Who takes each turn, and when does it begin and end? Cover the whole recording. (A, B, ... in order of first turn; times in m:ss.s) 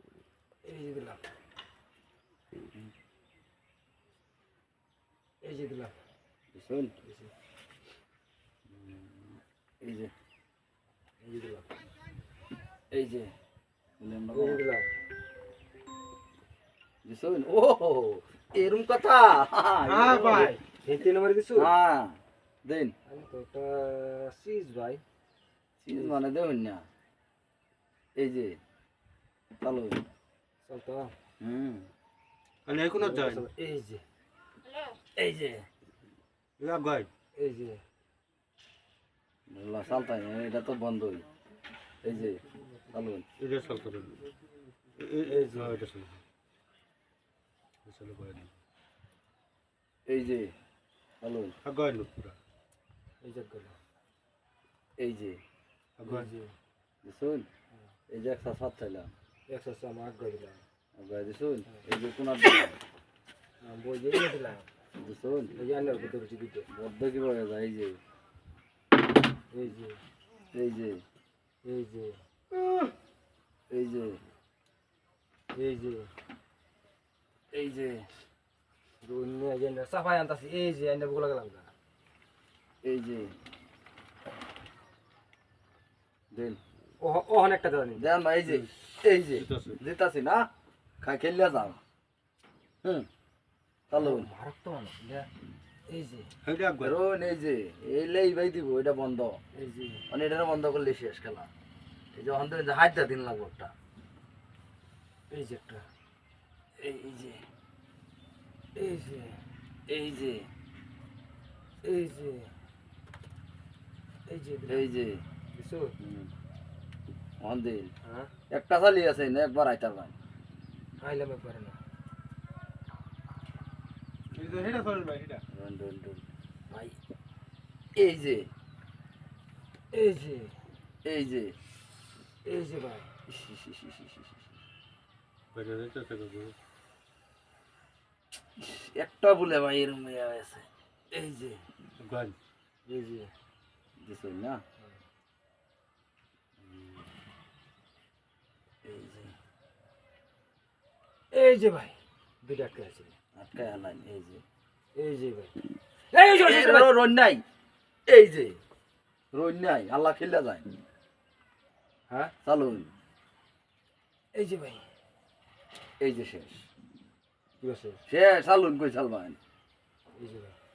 0:00.6-0:01.2 A
0:05.4-0:05.9 A
0:06.5-0:06.9 B
0:07.0-0:07.3 A
0:08.7-0:10.1 B
0:11.2-0:11.7 A
0:12.9-0:13.3 B
0:14.0-0:14.6 B
0:14.3-0:14.9 A
0:17.0-0:20.5 B
0:20.0-0:21.7 A
0:21.6-0:23.0 B
0:23.1-0:25.0 A
0:25.8-0:26.8 B
0:28.2-0:28.6 B
0:29.6-0:30.0 B
0:30.6-0:31.1 A
0:31.4-0:31.9 B
0:32.7-0:33.5 C
0:33.0-0:34.0 A
0:35.2-0:35.6 B
0:36.6-0:37.1 C
0:37.4-0:37.8 A
0:39.5-0:41.3 B
0:42.0-0:43.2 B
0:43.4-0:44.2 C
0:45.0-0:46.2 C
0:45.2-0:45.8 A
0:47.9-0:48.5 C
0:50.1-0:50.5 B
0:51.2-0:51.6 B
0:51.6-0:52.4 C
0:53.2-0:53.8 A
0:55.0-0:55.4 B
0:56.0-0:56.3 C
0:56.1-0:56.5 A
0:57.0-0:57.5 B
0:58.1-0:59.1 B
0:59.5-1:00.6 A
1:01.0-1:02.8 B
1:03.6-1:04.7 A
1:05.0-1:05.6 B
1:05.6-1:06.7 A
1:06.7-1:08.0 B
1:09.5-1:10.0 A
1:10.5-1:11.0 B
1:11.6-1:12.2 A
1:13.7-1:14.2 B
1:15.5-1:16.1 A
1:17.5-1:18.1 B
1:19.0-1:21.7 A
1:22.8-1:23.3 B
1:26.3-1:26.6 B
1:27.0-1:28.1 A
1:28.0-1:30.5 B
1:29.4-1:29.8 C
1:31.0-1:31.8 B
1:33.9-1:34.3 B
1:34.0-1:35.3 A
1:35.9-1:36.3 A
1:36.4-1:37.0 C
1:36.8-1:39.4 B
1:39.6-1:40.0 A
1:40.1-1:41.5 B
1:42.1-1:43.7 B
1:45.3-1:45.8 A
1:46.8-1:47.4 B
1:48.8-1:49.4 A
1:49.9-1:50.5 B
1:51.8-1:52.5 A
1:54.3-1:54.9 A
1:54.7-1:55.2 B
1:55.5-1:55.9 A
1:56.0-1:56.3 B
1:57.4-1:57.9 B
1:58.1-1:58.3 A
1:58.5-2:00.2 B
2:01.0-2:01.8 A
2:04.3-2:05.4 C
2:05.5-2:06.9 B
2:08.0-2:08.5 B
2:09.9-2:10.6 A
2:11.0-2:11.6 B
2:12.4-2:13.1 A
2:13.3-2:14.3 B
2:15.5-2:16.6 C
2:18.6-2:21.6 B
2:22.0-2:22.4 C
2:22.9-2:23.3 A
2:24.0-2:24.6 B
2:26.6-2:27.0 B
2:28.8-2:29.3 B
2:31.3-2:33.1 A
2:33.4-2:34.4 B
2:35.0-2:35.5 A
2:36.1-2:36.9 A
2:36.4-2:37.4 B
2:38.1-2:38.6 B
2:39.3-2:40.7 B
2:42.4-2:42.9 B
2:44.3-2:44.8 A
2:46.0-2:46.6 B
2:47.6-2:48.0 A
2:48.1-2:49.4 B
2:50.2-2:50.5 A